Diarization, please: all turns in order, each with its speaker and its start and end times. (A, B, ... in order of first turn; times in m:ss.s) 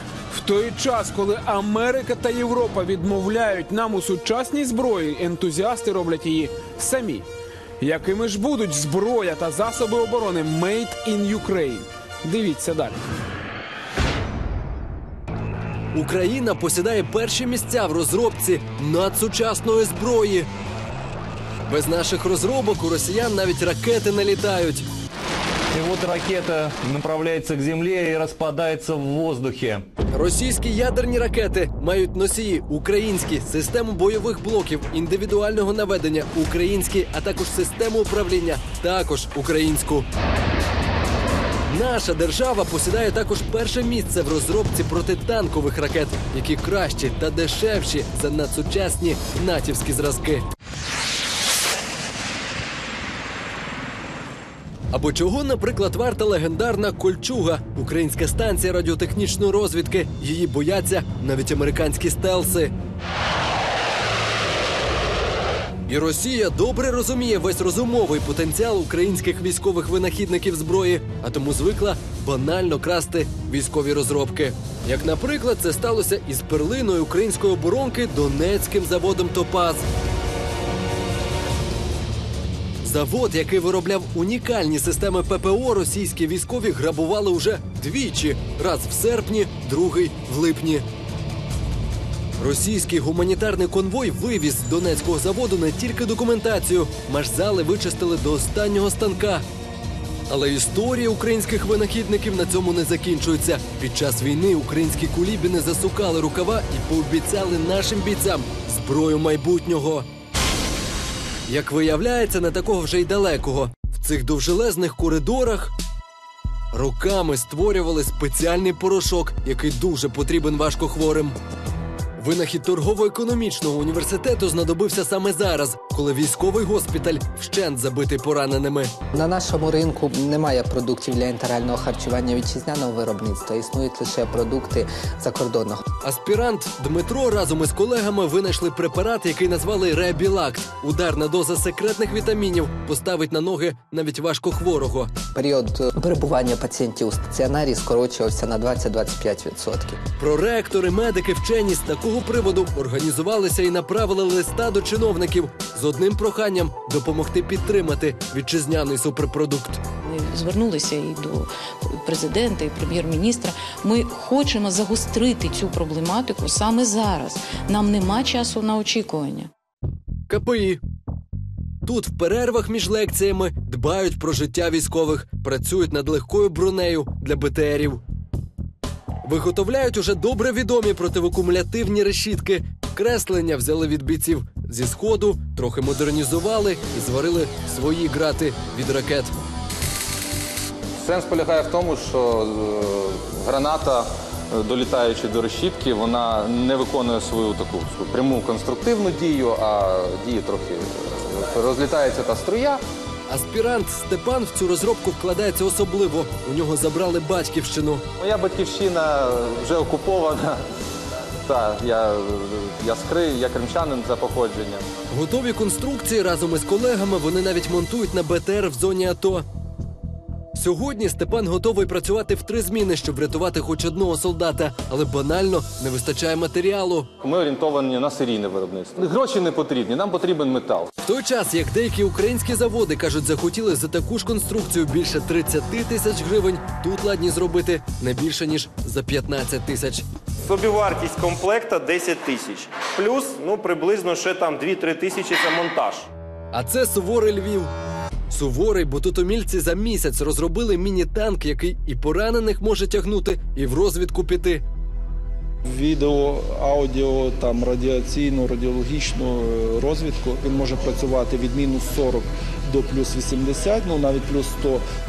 0:00.3-0:07.2 A
0:07.8-0:13.0 A
0:15.9-0:20.5 B
0:21.7-0:24.8 B
0:25.7-0:29.8 C
0:30.1-0:40.1 B
0:41.7-0:50.4 B
0:54.9-1:02.7 B
1:05.9-1:19.8 B
1:22.8-1:30.8 B
1:32.4-1:39.4 B
1:40.3-1:50.1 B
1:51.5-1:55.7 B
1:56.7-2:01.4 B
2:02.2-2:08.9 B
2:09.1-2:15.8 D
2:16.0-2:25.1 B
2:25.3-2:30.0 D
2:30.2-2:39.8 B
2:40.0-2:49.5 E
2:50.3-2:50.8 B
2:51.8-2:58.0 B
2:59.2-3:09.3 B
3:11.0-3:22.8 F
3:23.3-3:28.0 B
3:28.2-3:30.6 F
3:31.4-3:34.9 F
3:35.1-3:39.4 B
3:40.5-3:47.1 B
3:47.2-3:50.9 F
3:51.0-4:00.1 B
4:00.5-4:06.0 G
4:06.5-4:07.7 B
4:08.3-4:14.6 B
4:15.6-4:24.8 H